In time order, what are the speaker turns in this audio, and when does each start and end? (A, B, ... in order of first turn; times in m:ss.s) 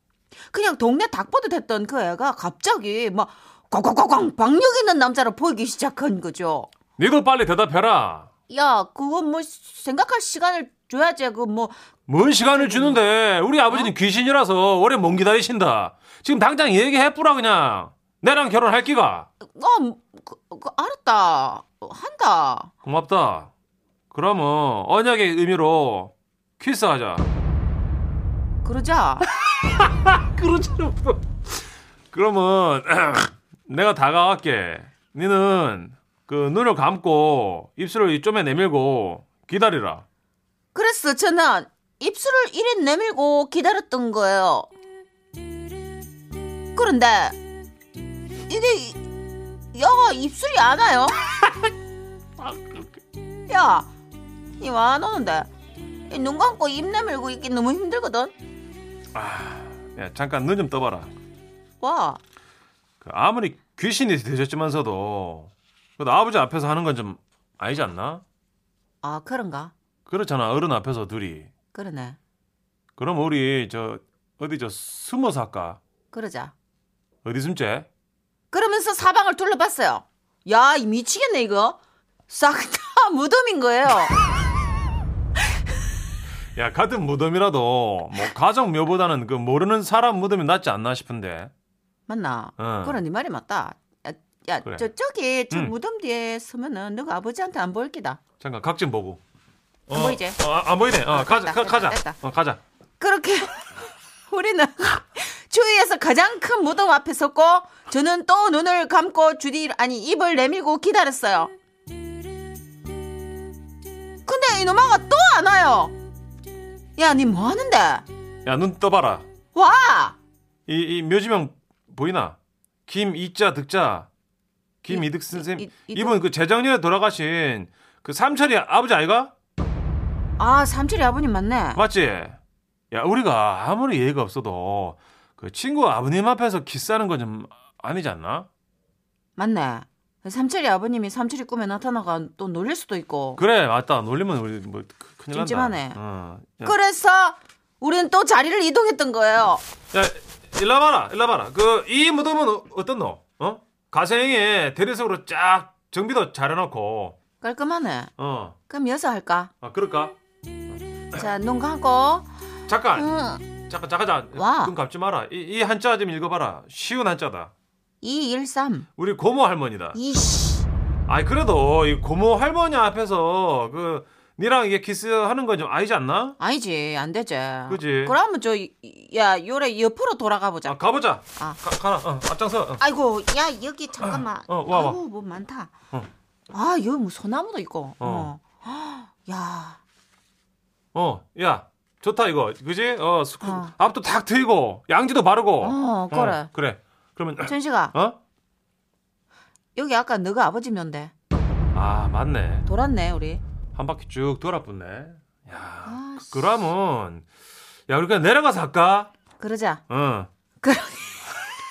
0:00.5-0:06.7 A
0:07.0-0:08.3 B
0:08.5-0:11.8 A
0:12.1-0:19.3 B
0:12.5-0:13.0 A
0:19.4-0:22.7 A
0:22.8-0:23.5 B
0:24.1-0:27.3 B
0:28.6-0:29.3 A
0:29.5-0:31.6 B
0:32.1-0:40.0 B
0:40.7-0:44.7 A
0:46.7-0:47.4 A
0:48.5-0:51.2 A
0:52.4-0:52.9 B
0:53.5-0:53.9 A
0:54.6-0:55.5 A
0:56.1-0:58.4 A
0:59.1-1:01.1 B
1:01.8-1:02.2 A
1:03.0-1:08.2 B
1:09.0-1:09.7 A
1:10.1-1:11.5 B
1:11.7-1:12.2 A
1:13.0-1:15.8 B
1:16.1-1:16.5 A
1:17.2-1:17.9 B
1:18.5-1:24.2 A
1:26.6-1:31.5 B
1:32.1-1:38.2 A
1:32.6-1:33.0 B
1:38.4-1:39.2 B
1:39.9-1:42.6 B
1:39.9-1:40.4 A
1:41.1-1:42.2 A
1:43.0-1:51.5 A
1:54.2-1:55.9 A
1:57.0-1:58.0 A
1:58.4-1:59.3 B
1:59.5-2:00.2 A
2:00.7-2:02.4 B
2:02.9-2:04.1 B
2:04.8-2:09.3 B
2:04.9-2:06.2 A
2:10.4-2:11.8 A
2:11.8-2:12.4 B
2:12.9-2:18.5 B
2:19.4-2:23.4 A
2:23.4-2:26.8 B
2:25.3-2:26.0 A
2:26.6-2:29.6 A
2:29.9-2:37.2 B
2:37.4-2:38.1 A
2:38.2-2:38.6 B
2:38.7-2:39.5 A
2:39.6-2:40.2 B
2:41.1-2:42.3 A
2:42.7-2:43.1 B
2:42.9-2:43.5 A
2:43.7-2:47.5 B
2:44.3-2:44.8 A
2:48.0-2:48.9 A
2:49.0-2:50.0 B
2:49.9-2:50.7 A
2:51.1-2:56.4 B
2:56.4-3:00.8 A
2:57.7-2:58.2 B
3:00.6-3:02.8 B
3:02.8-3:05.7 A
3:04.0-3:05.0 B
3:06.5-3:09.8 A
3:08.0-3:08.3 B
3:10.9-3:18.2 B
3:13.4-3:13.7 A
3:15.6-3:16.5 A
3:17.4-3:17.9 A
3:19.8-3:21.1 A
3:21.7-3:22.7 B
3:22.7-3:23.4 A
3:23.7-3:27.2 B
3:25.9-3:26.6 A
3:27.9-3:29.1 B
3:29.4-3:29.8 A
3:29.9-3:30.3 B
3:30.6-3:31.4 A